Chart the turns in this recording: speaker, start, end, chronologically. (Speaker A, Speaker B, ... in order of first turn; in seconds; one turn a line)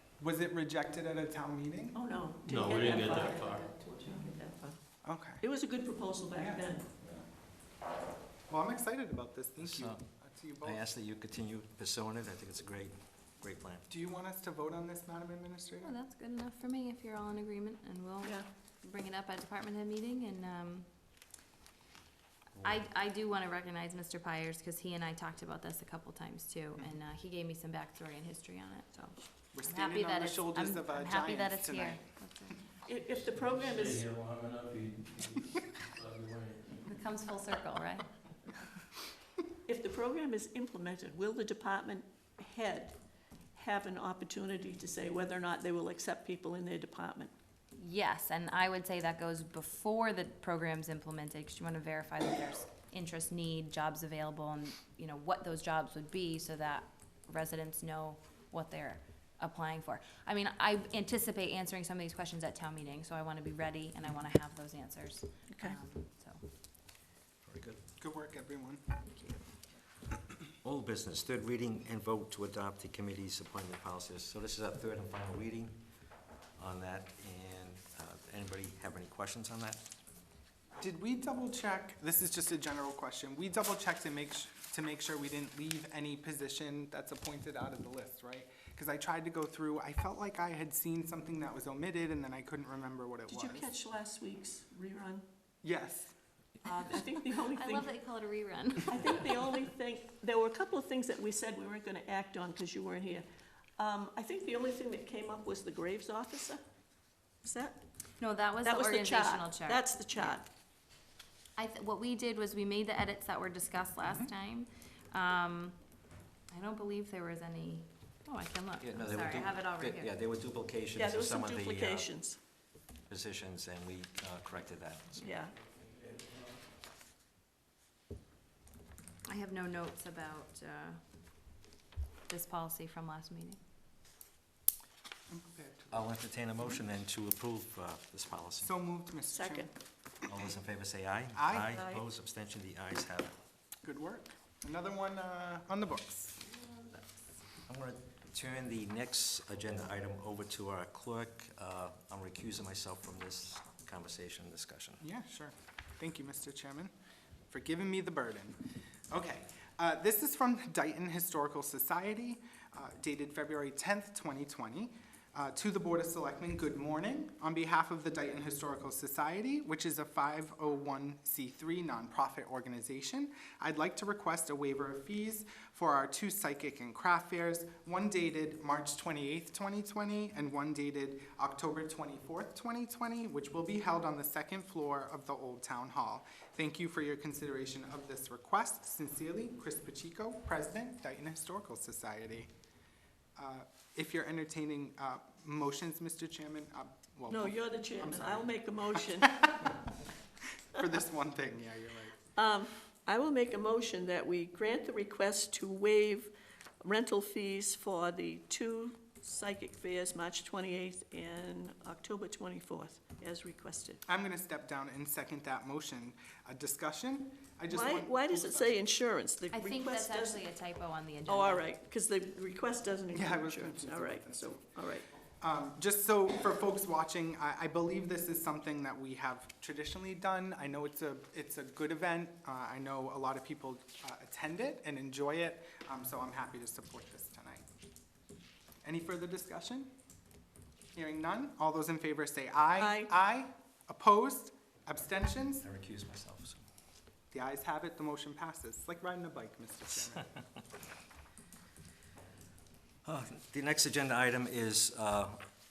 Speaker A: 0.2-2.0
Speaker B: 1.9-4.8
Speaker C: 2.4-4.3
Speaker A: 5.0-5.4
Speaker B: 5.4-6.9
Speaker A: 6.4-6.7
Speaker A: 8.5-10.8
Speaker D: 9.6-10.0
Speaker D: 10.6-13.8
Speaker A: 13.9-15.9
Speaker E: 15.8-20.9
Speaker E: 22.6-32.7
Speaker A: 29.5-32.0
Speaker B: 32.8-34.0
Speaker C: 33.2-36.9
Speaker E: 36.9-38.0
Speaker B: 39.6-43.0
Speaker B: 43.5-47.3
Speaker E: 47.7-66.4
Speaker B: 65.5-65.8
Speaker D: 67.4-67.8
Speaker A: 68.0-68.8
Speaker E: 69.1-69.4
Speaker D: 70.6-75.7
Speaker D: 76.6-79.8
Speaker A: 80.8-93.7
Speaker B: 93.3-95.2
Speaker A: 95.6-96.1
Speaker B: 96.6-97.9
Speaker E: 97.5-99.2
Speaker B: 98.9-103.2
Speaker B: 103.8-106.6
Speaker B: 107.4-107.8
Speaker E: 108.2-109.8
Speaker B: 108.6-110.5
Speaker E: 111.5-115.8
Speaker E: 116.5-120.1
Speaker D: 118.8-122.1
Speaker B: 120.9-122.4
Speaker D: 123.1-125.3
Speaker B: 125.2-125.5
Speaker C: 125.9-126.4
Speaker E: 129.3-131.0
Speaker E: 132.3-133.6
Speaker A: 135.3-136.8
Speaker D: 135.9-138.7
Speaker A: 138.6-139.7
Speaker B: 139.3-139.7
Speaker D: 140.2-143.3
Speaker A: 141.3-141.8
Speaker B: 141.7-142.0
Speaker A: 143.8-146.4
Speaker D: 147.7-155.0
Speaker A: 155.0-156.9
Speaker A: 157.5-158.6
Speaker A: 159.1-192.5
Speaker A: 193.4-199.7
Speaker B: 197.3-199.5
Speaker A: 200.7-202.2
Speaker B: 202.3-214.0
Speaker A: 214.1-218.8
Speaker B: 217.7-220.4
Speaker E: 219.5-221.7
Speaker B: 221.3-225.1
Speaker A: 223.1-224.7
Speaker A: 225.4-237.6
Speaker A: 238.8-239.9
Speaker A: 240.9-245.6
Speaker B: 242.8-243.1
Speaker D: 245.6-246.6
Speaker A: 247.3-250.3
Speaker D: 253.0-255.4